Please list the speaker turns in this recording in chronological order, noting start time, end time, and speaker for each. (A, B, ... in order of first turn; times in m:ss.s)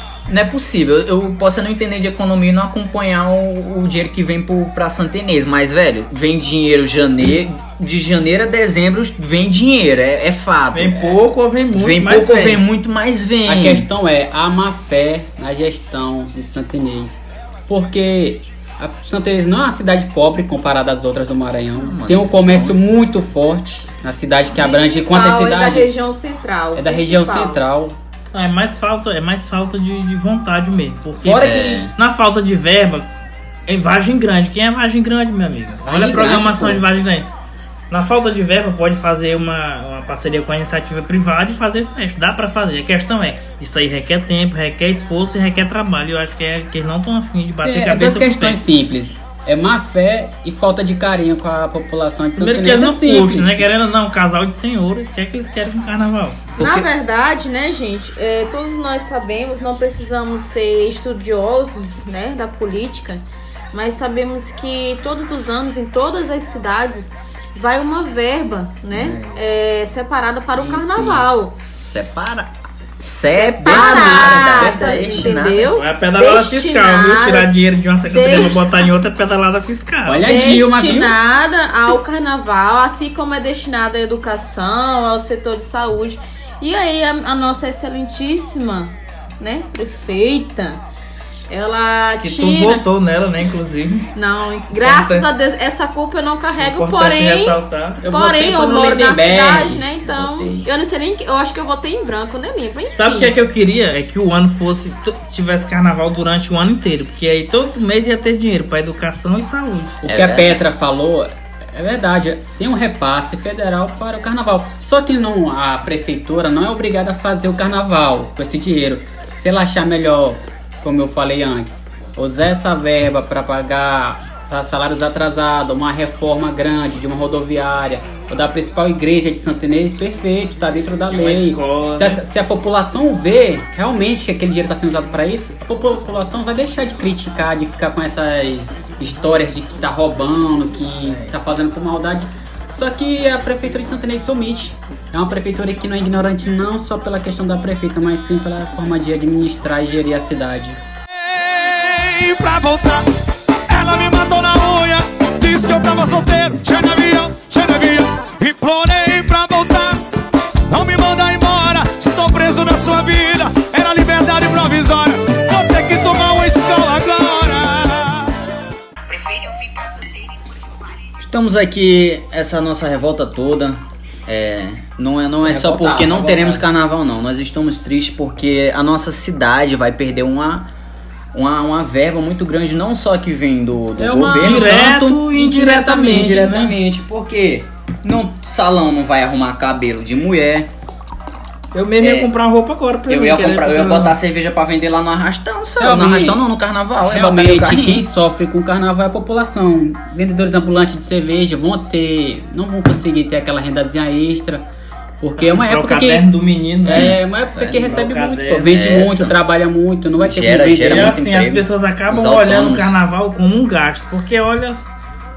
0:00.3-0:11.2 A
0:10.7-0:12.6 B
0:11.7-0:13.9 A
0:13.4-0:25.9 C
0:21.7-0:22.8 A
0:24.5-0:27.6 D
0:26.7-0:28.0 C
0:28.3-0:33.1 B
0:31.2-0:31.8 C
0:31.4-0:31.9 A
0:33.7-0:37.3 B
0:35.8-0:36.8 C
0:37.9-0:48.6 B
0:47.6-0:53.6 C
0:52.4-0:56.6 B
0:56.6-0:56.9 A
0:56.6-1:11.6 D
1:08.9-1:09.5 A
1:10.5-1:11.3 C
1:11.8-1:15.7 A
1:13.4-1:17.5 D
1:13.6-1:15.2 C
1:15.7-1:20.3 B
1:18.1-1:18.7 D
1:20.1-1:21.2 C
1:20.2-1:30.8 D
1:31.5-1:32.8 D
1:32.2-1:34.1 B
1:34.1-1:43.3 D
1:34.8-1:35.3 B
1:36.6-1:38.0 B
1:38.0-1:39.8 C
1:40.0-1:40.7 A
1:42.9-1:50.0 B
1:50.0-2:30.8 C
1:50.0-1:50.6 A
2:11.1-2:12.2 B
2:21.0-2:21.3 B
2:31.3-2:33.1 E
2:33.7-2:40.0 E
2:40.7-2:48.4 E
2:51.2-3:00.7 A
2:55.4-2:56.6 C
3:01.3-3:05.2 A
3:04.0-3:06.6 C
3:04.3-3:06.8 B
3:06.0-3:10.7 A
3:11.7-3:14.2 B
3:12.0-3:12.3 A
3:13.1-3:18.0 A
3:15.8-3:16.4 C
3:17.1-3:24.6 C
3:25.2-3:26.3 C
3:25.4-3:27.2 B
3:26.8-3:31.2 C
3:27.0-3:27.9 A
3:27.7-3:28.8 B
3:28.7-3:29.4 A
3:30.2-3:33.0 A
3:30.9-3:34.9 B